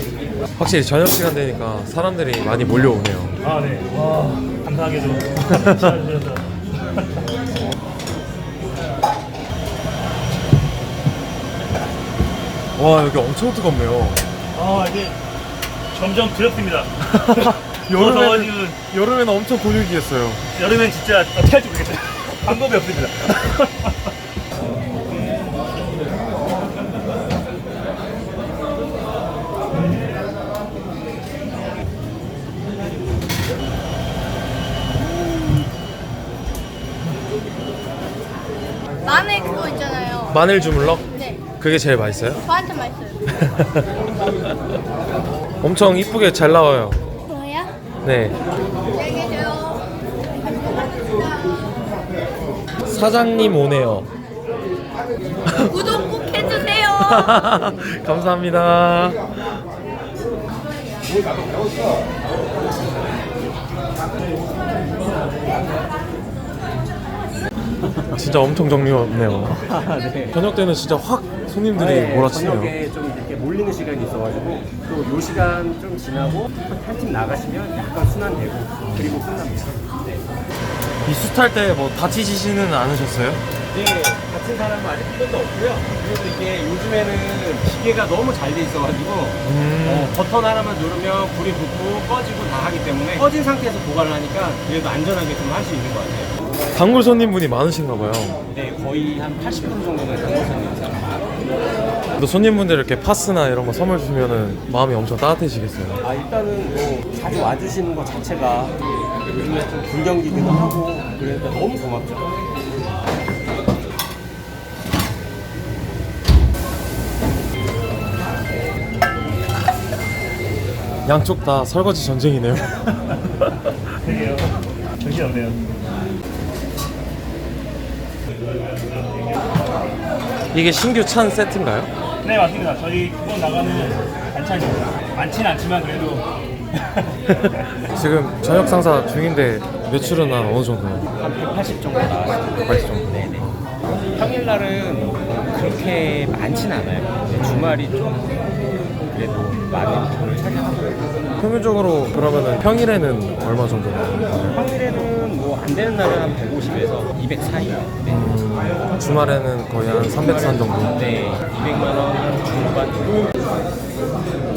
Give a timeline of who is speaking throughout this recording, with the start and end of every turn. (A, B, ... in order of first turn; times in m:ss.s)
0:00.6-0:03.4 A
0:03.4-0:07.3 B
0:05.5-0:05.8 A
0:12.8-0:14.3 A
0:14.5-0:15.2 B
0:15.9-0:18.8 B
0:17.1-0:20.4 A
0:20.5-0:24.1 B
0:25.1-0:25.7 B
0:39.0-0:40.4 C
0:40.3-0:42.4 A
0:41.1-0:41.4 C
0:42.4-0:43.2 C
0:43.3-0:43.9 A
0:44.4-0:44.7 A
0:45.6-0:47.0 A
0:47.3-0:47.7 C
0:48.0-0:48.4 A
0:48.9-0:49.8 C
0:50.4-0:51.5 C
0:52.8-0:54.1 A
0:55.4-0:59.6 A
0:55.6-0:57.3 C
1:08.1-1:09.7 A
1:09.4-1:10.4 D
1:10.3-1:12.8 A
1:11.7-1:20.2 D
1:18.8-1:19.2 A
1:21.0-1:23.4 A
1:23.7-1:36.4 D
1:29.4-1:30.2 A
1:36.7-1:38.4 A
1:38.5-1:41.4 D
1:42.2-1:46.0 A
1:46.0-1:52.4 D
2:01.0-2:03.5 A
2:04.0-2:05.7 B
2:09.0-2:09.6 B
2:10.5-2:11.9 A
2:12.2-2:16.3 B
2:17.9-2:21.1 A
2:21.1-2:28.5 D
2:22.6-2:23.6 A
2:29.0-2:31.0 D
2:31.4-2:34.6 A
2:34.5-2:43.4 D
2:38.0-2:41.3 A